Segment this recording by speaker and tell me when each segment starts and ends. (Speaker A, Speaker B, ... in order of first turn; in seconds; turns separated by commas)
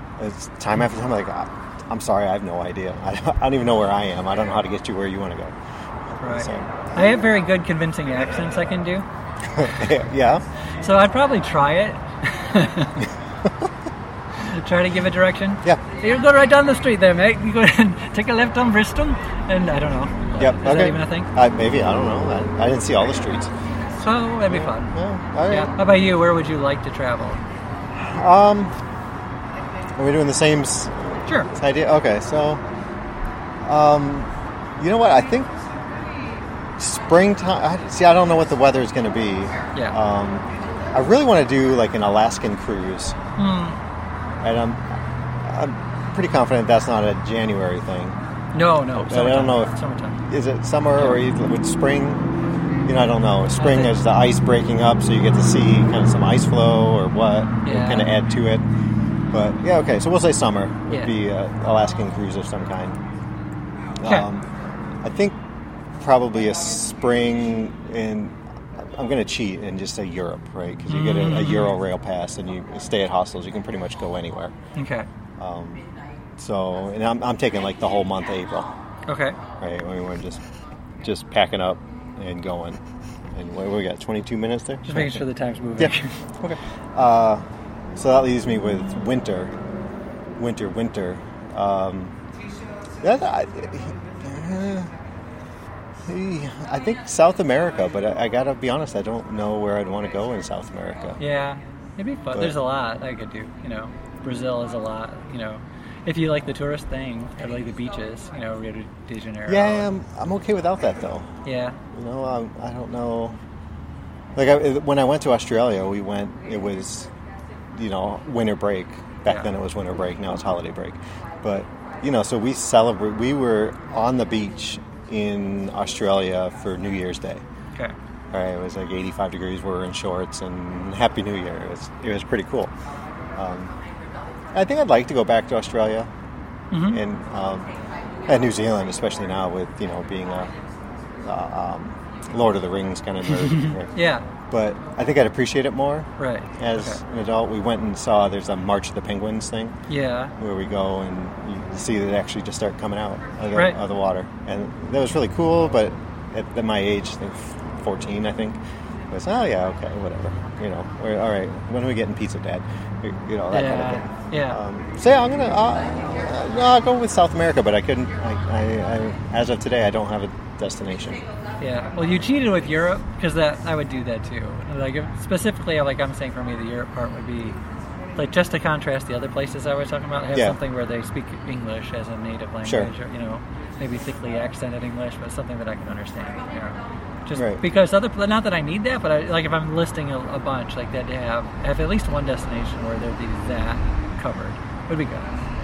Speaker A: 0.2-5.5, Speaker B: 6.2-9.1, Speaker A: 6.3-7.0, Speaker A: 9.5-10.4, Speaker B: 10.8-13.1, Speaker B: 14.4-21.3, Speaker A: 20.4-23.5, Speaker B: 24.0-24.9, Speaker A: 24.5-25.7, Speaker B: 25.5-27.4, Speaker A: 27.9-28.7, Speaker A: 30.0-32.6, Speaker A: 33.6-35.5, Speaker A: 36.8-43.2, Speaker B: 43.4-43.8, Speaker A: 44.4-48.2, Speaker B: 48.5-50.2, Speaker A: 48.9-49.7, Speaker A: 50.3-52.2, Speaker A: 52.8-58.6, Speaker B: 53.6-54.0, Speaker B: 57.6-58.1, Speaker A: 59.3-63.0, Speaker A: 64.0-64.5, Speaker A: 65.0-65.4, Speaker A: 66.0-74.5, Speaker B: 70.9-71.8, Speaker B: 74.7-75.1, Speaker A: 75.4-75.8, Speaker A: 76.4-78.7, Speaker B: 79.1-79.4, Speaker A: 79.6-80.4, Speaker A: 81.0-85.2, Speaker B: 84.9-86.2, Speaker A: 85.8-87.4, Speaker A: 88.0-89.5, Speaker A: 90.4-92.1, Speaker A: 93.0-94.9, Speaker A: 96.0-101.2, Speaker B: 101.2-109.9, Speaker A: 102.3-102.6, Speaker A: 109.5-111.3, Speaker B: 111.4-111.8, Speaker A: 111.9-113.4, Speaker A: 114.3-117.1, Speaker A: 117.7-127.4, Speaker B: 119.2-119.5, Speaker A: 128.3-132.7, Speaker A: 133.3-133.7, Speaker A: 134.5-136.1, Speaker B: 136.7-137.0, Speaker A: 136.9-137.7, Speaker A: 138.2-140.5, Speaker A: 141.2-143.9, Speaker B: 143.4-144.3, Speaker A: 144.5-149.8, Speaker B: 146.2-147.0, Speaker B: 149.9-150.3, Speaker A: 150.4-171.2, Speaker B: 153.5-153.8, Speaker B: 163.5-164.6, Speaker B: 171.6-177.6, Speaker B: 178.1-195.3, Speaker A: 182.6-182.9, Speaker A: 187.3-187.6